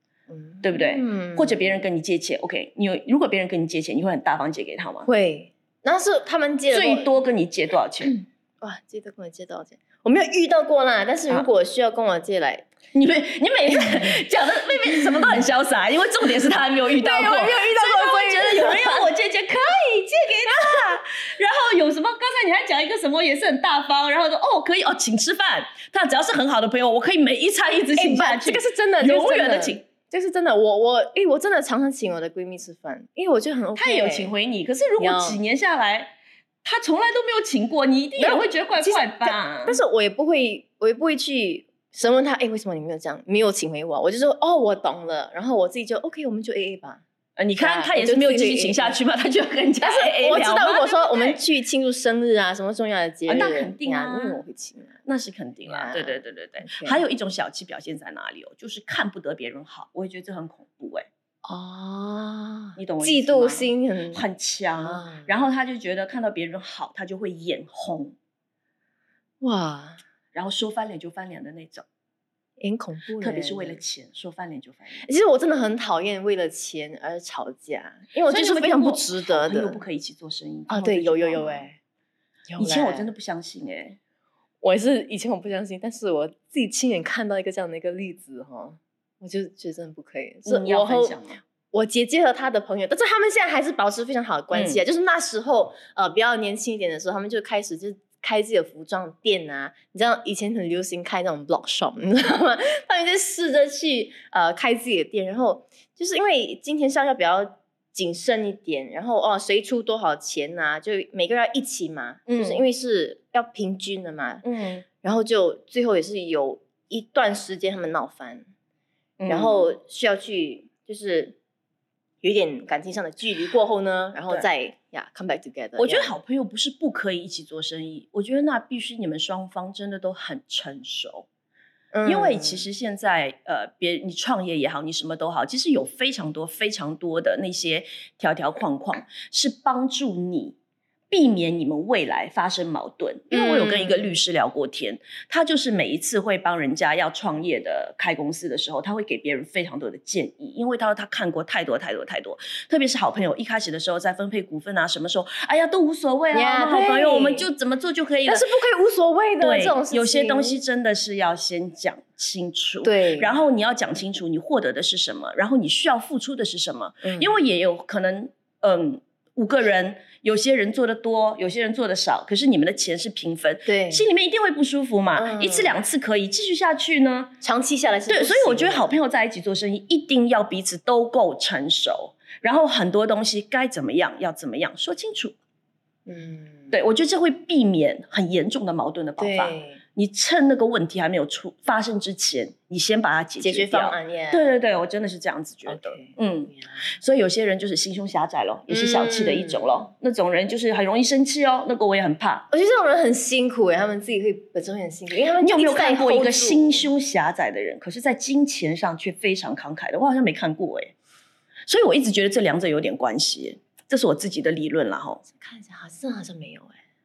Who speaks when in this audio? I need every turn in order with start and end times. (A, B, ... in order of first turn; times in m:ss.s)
0:00.3-0:01.8 A
0:00.6-0:05.1 B
0:05.0-0:07.1 A
0:06.7-0:08.1 B
0:08.0-0:12.7 A
0:12.9-0:29.8 B
0:13.8-0:14.1 A
0:16.9-0:19.1 A
0:20.5-0:20.8 A
0:27.9-0:34.3 A
0:33.8-0:39.8 B
0:35.0-0:35.4 A
0:38.2-0:47.0 A
0:47.4-0:51.4 B
0:47.6-0:49.0 A
0:49.8-0:55.0 A
0:53.3-0:54.4 B
0:55.1-1:01.1 B
0:55.6-0:57.0 A
1:01.4-1:04.2 A
1:02.8-1:08.2 B
1:04.8-1:05.3 A
1:09.4-1:10.0 A
1:10.3-1:11.8 B
1:12.6-1:13.8 A
1:13.2-1:15.0 B
1:15.0-1:19.8 A
1:18.3-1:21.7 B
1:20.7-1:21.8 A
1:22.5-1:23.1 A
1:22.6-1:24.0 B
1:24.6-1:31.2 A
1:30.5-1:31.4 B
1:31.7-1:54.4 A
1:34.5-1:34.8 B
1:52.3-1:52.6 B
1:54.4-1:54.9 B
1:55.0-1:58.5 A
1:59.2-1:59.7 B
1:59.3-2:01.4 A
2:02.2-2:06.1 A
2:05.8-2:11.3 B
2:11.9-2:12.7 A
2:12.0-2:20.6 B
2:21.1-2:38.5 B
2:23.3-2:24.1 A
2:36.3-2:37.5 A
2:38.2-2:40.6 A
2:39.4-2:57.4 B
2:42.8-2:43.3 A
2:47.0-2:47.3 A
2:53.7-2:54.0 A
2:55.2-2:55.8 A
2:57.4-2:59.0 A
2:58.1-3:05.4 B
3:06.1-3:06.7 A
3:06.7-3:22.5 B
3:09.2-3:09.8 A
3:13.4-3:14.5 A
3:15.7-3:16.8 A
3:18.7-3:19.7 A
3:22.5-3:26.9 A
3:25.4-3:30.9 B
3:31.7-3:35.2 B
3:35.2-3:36.8 A